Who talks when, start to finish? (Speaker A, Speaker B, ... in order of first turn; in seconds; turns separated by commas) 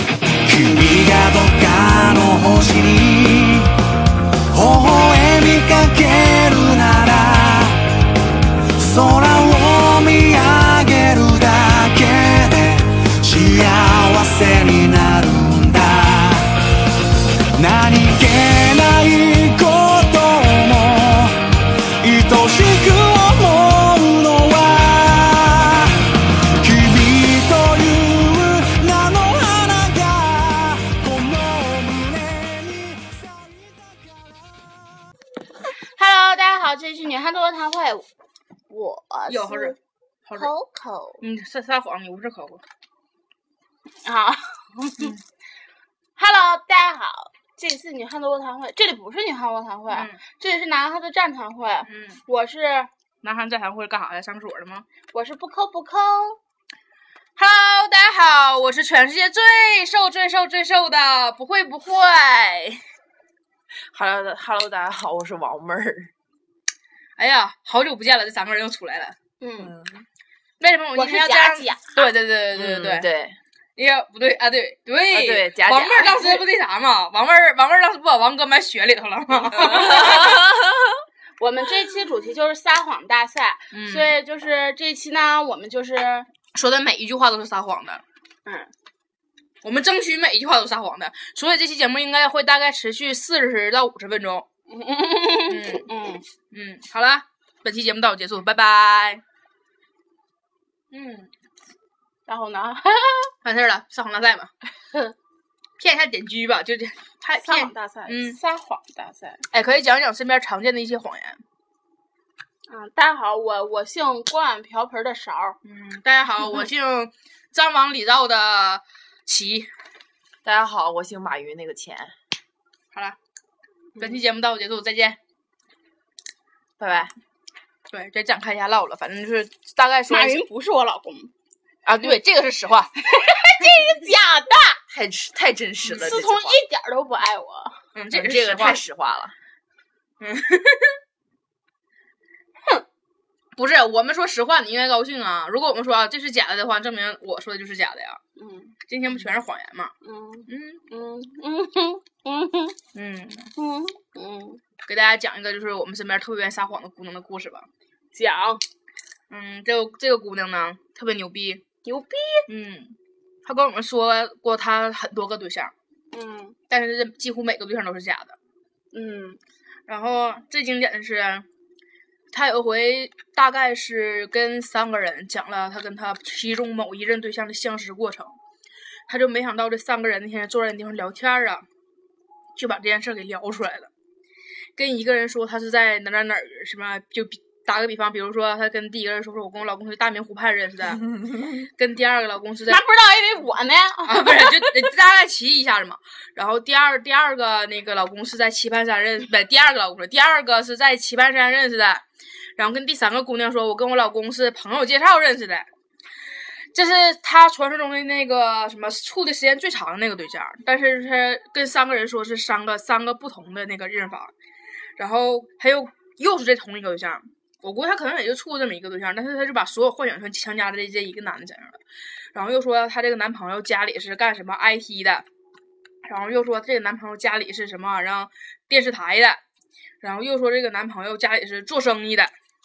Speaker A: 0.4-3.7, Speaker A: 4.5-7.9, Speaker A: 8.7-16.5, Speaker A: 17.5-21.4, Speaker A: 22.0-25.9, Speaker A: 26.6-34.8, Speaker B: 35.9-38.1, Speaker B: 38.7-39.8, Speaker C: 39.3-40.5, Speaker B: 40.3-41.2, Speaker C: 41.2-42.6, Speaker B: 44.0-45.1, Speaker B: 46.1-52.9, Speaker C: 49.9-50.2, Speaker C: 51.8-52.2, Speaker C: 53.2-54.9, Speaker B: 55.1-56.4, Speaker C: 57.4-62.8, Speaker D: 63.9-66.1, Speaker C: 67.2-69.2, Speaker B: 69.4-69.7, Speaker D: 69.6-70.0, Speaker C: 70.6-73.1, Speaker B: 70.9-72.1, Speaker D: 72.5-73.4, Speaker C: 73.8-80.5, Speaker D: 75.1-76.2, Speaker B: 76.0-76.4, Speaker D: 79.7-80.9, Speaker B: 81.4-86.3, Speaker C: 83.7-84.1, Speaker C: 86.5-88.0, Speaker B: 88.5-88.7, Speaker C: 89.6-94.5, Speaker B: 94.7-96.2, Speaker C: 95.5-95.9, Speaker C: 96.5-99.2, Speaker C: 100.9-101.3, Speaker B: 102.3-103.3, Speaker C: 103.4-104.5, Speaker C: 105.8-108.4, Speaker B: 107.4-109.4, Speaker C: 109.5-111.4, Speaker B: 112.7-115.6, Speaker C: 115.6-119.7, Speaker D: 120.4-122.1, Speaker C: 124.0-125.2, Speaker D: 126.8-127.1, Speaker C: 127.9-130.5, Speaker B: 130.1-131.3, Speaker C: 131.8-132.9, Speaker B: 133.0-134.8, Speaker D: 134.9-136.6, Speaker C: 135.8-136.2, Speaker B: 135.9-137.8, Speaker C: 137.9-138.8, Speaker D: 138.1-139.3, Speaker C: 140.2-141.0, Speaker C: 143.6-148.2, Speaker B: 148.4-148.8, Speaker C: 148.9-149.9, Speaker B: 150.0-152.8, Speaker C: 150.5-150.8, Speaker C: 152.9-153.5, Speaker B: 153.6-154.6, Speaker C: 154.8-157.7, Speaker B: 158.1-158.6, Speaker C: 159.3-161.6, Speaker B: 161.8-162.4, Speaker C: 162.5-165.7, Speaker B: 166.1-166.6, Speaker C: 166.7-168.4, Speaker B: 168.9-169.4, Speaker C: 169.9-171.5, Speaker C: 172.3-178.4, Speaker C: 179.1-181.7, Speaker C: 182.6-183.9, Speaker C: 184.8-192.8, Speaker B: 192.7-194.9, Speaker C: 194.0-202.0, Speaker C: 202.6-205.7, Speaker C: 206.7-214.3, Speaker C: 215.0-221.8, Speaker C: 222.3-225.2, Speaker C: 226.0-229.4, Speaker C: 230.0-232.3